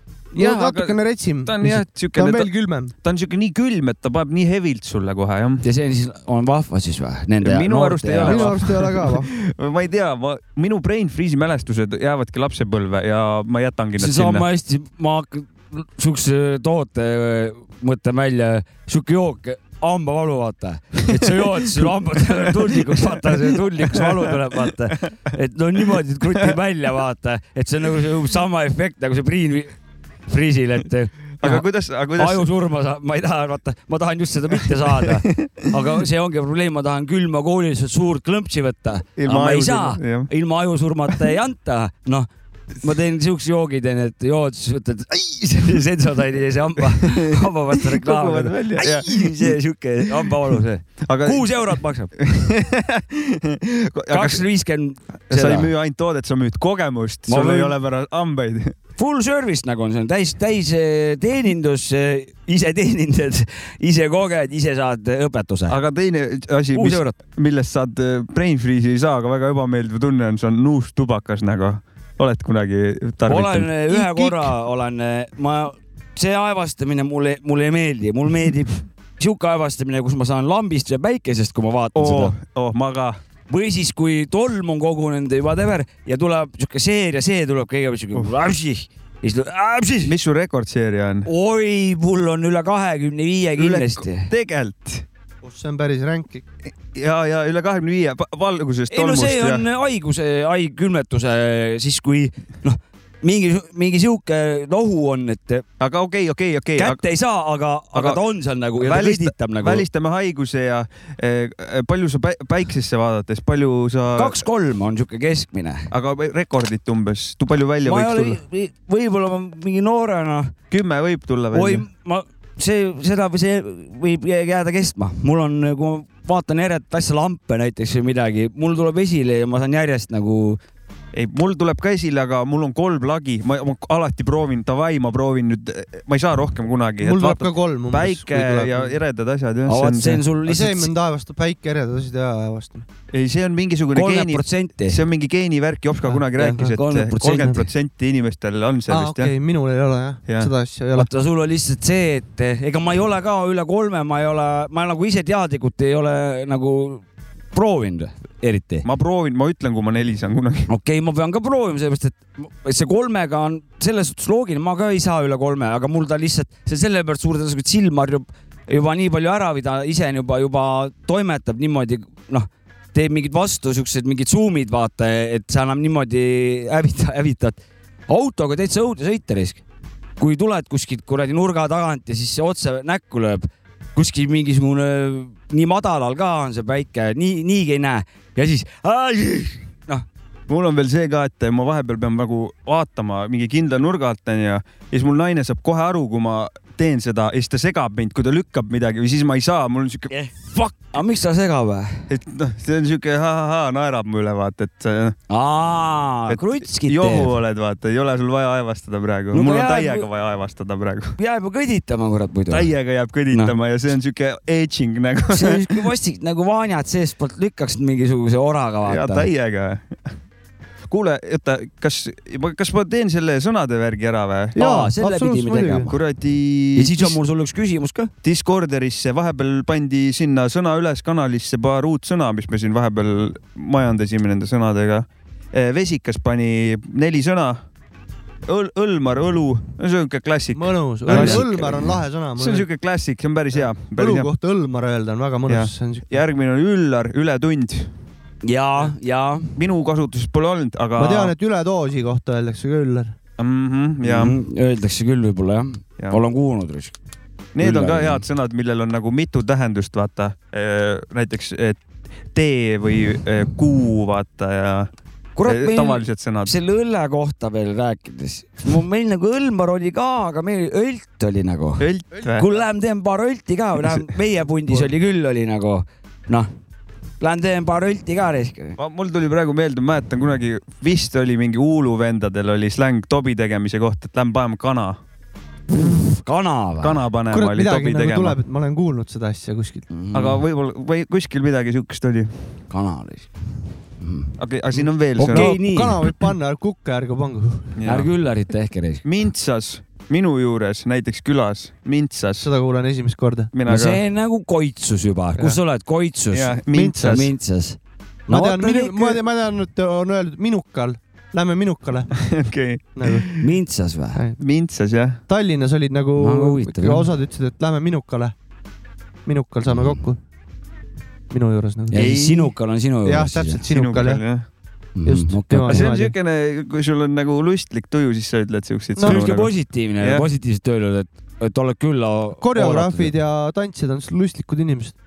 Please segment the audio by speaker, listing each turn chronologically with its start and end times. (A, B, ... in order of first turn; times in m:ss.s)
0:00.3-0:02.9 A
0:00.4-0:05.6 B
0:05.6-0:08.6 C
0:07.4-0:14.5 B
0:08.2-0:09.3 A
0:14.0-0:29.7 C
0:21.1-0:25.2 B
0:30.3-0:42.3 C
0:31.4-0:32.4 B
0:34.9-0:35.7 B
0:39.2-0:40.3 B
0:42.8-0:52.1 C
0:47.0-0:54.4 B
0:54.1-0:55.7 C
0:55.3-0:58.8 B
0:57.3-0:57.7 C
0:59.0-1:05.8 C
1:05.7-1:13.7 B
1:06.7-1:07.2 C
1:13.3-1:22.4 C
1:13.9-1:14.5 A
1:22.0-1:23.2 B
1:23.5-1:30.1 C
1:30.0-1:31.3 B
1:31.3-1:34.3 C
1:33.6-1:35.1 B
1:35.4-1:36.4 A
1:36.7-1:39.7 B
1:38.9-1:45.6 C
1:45.8-1:47.0 B
1:46.8-1:49.8 C
1:47.9-1:48.2 B
1:48.8-1:54.4 B
1:54.2-1:55.9 C
1:55.9-1:58.4 B
1:57.8-2:00.6 C
2:00.7-2:01.8 B
2:01.5-2:10.6 C
2:11.1-2:20.2 B
2:17.0-2:19.0 A
2:19.7-2:20.9 C
2:20.4-2:22.9 A
2:23.1-2:29.3 B
2:23.9-2:25.0 C
2:26.1-2:26.7 A
2:26.3-2:27.6 C
2:27.3-2:27.7 A
2:28.9-2:31.1 A
2:30.3-2:30.5 B
2:31.0-2:38.9 C
2:38.8-2:40.7 B
2:40.7-2:59.6 C
3:00.2-3:10.0 C
3:10.5-3:20.1 B
3:20.1-3:22.1 C
3:22.1-3:25.2 B
3:25.3-3:27.3 C
3:26.3-3:31.2 B
3:29.3-3:30.1 C
3:31.2-3:32.7 C
3:32.5-3:35.7 B
3:35.3-3:39.3 C
3:38.8-3:40.1 B
3:40.9-3:44.6 B
3:44.5-3:45.9 A
3:44.6-3:45.9 C
3:45.9-3:47.2 B
3:46.8-3:48.1 C
3:48.2-3:57.6 B
3:58.5-4:04.3 B
4:00.5-4:02.7 A
4:01.1-4:01.9 C
4:03.5-4:06.2 A
4:05.5-4:07.9 B
4:08.4-4:09.5 C
4:09.6-4:11.4 B
4:11.0-4:13.1 A
4:13.4-4:14.4 B
4:14.0-4:16.9 C
4:17.6-4:21.8 B
4:17.6-4:18.2 C
4:22.3-4:24.9 B
4:25.4-4:36.5 C
4:25.4-4:26.6 B
4:31.8-4:32.5 B
4:37.2-4:38.8 C
4:38.8-4:45.0 B
4:45.7-4:47.0 C
4:46.8-4:48.4 B
4:47.3-4:49.9 A
4:49.9-4:50.4 C
4:50.1-4:52.3 B
4:52.7-4:54.3 C
4:54.4-4:55.6 B
4:55.2-4:56.0 C
4:55.2-4:57.7 A
4:57.8-4:58.1 B
4:57.9-4:59.0 C
4:59.0-5:02.5 B
5:02.4-5:03.5 A
5:03.5-5:04.0 B
5:03.7-5:07.8 C
5:06.3-5:07.3 B
5:06.7-5:07.2 A
5:08.3-5:12.1 A
5:08.3-5:09.2 C
5:12.2-5:13.4 B
5:13.0-5:13.3 A
5:13.4-5:14.2 C
5:14.1-5:14.4 A
5:14.4-5:15.2 B
5:15.3-5:18.4 A
5:16.2-5:17.1 C
5:19.3-5:20.2 A
5:21.3-5:22.2 A
5:21.9-5:23.6 C
5:21.9-5:22.5 B
5:23.0-5:24.2 A
5:23.7-5:24.5 B
5:25.0-5:25.9 C
5:25.0-5:26.1 A
5:25.7-5:30.3 B
5:29.0-5:29.2 A
5:29.0-5:33.1 C
5:32.4-5:34.9 A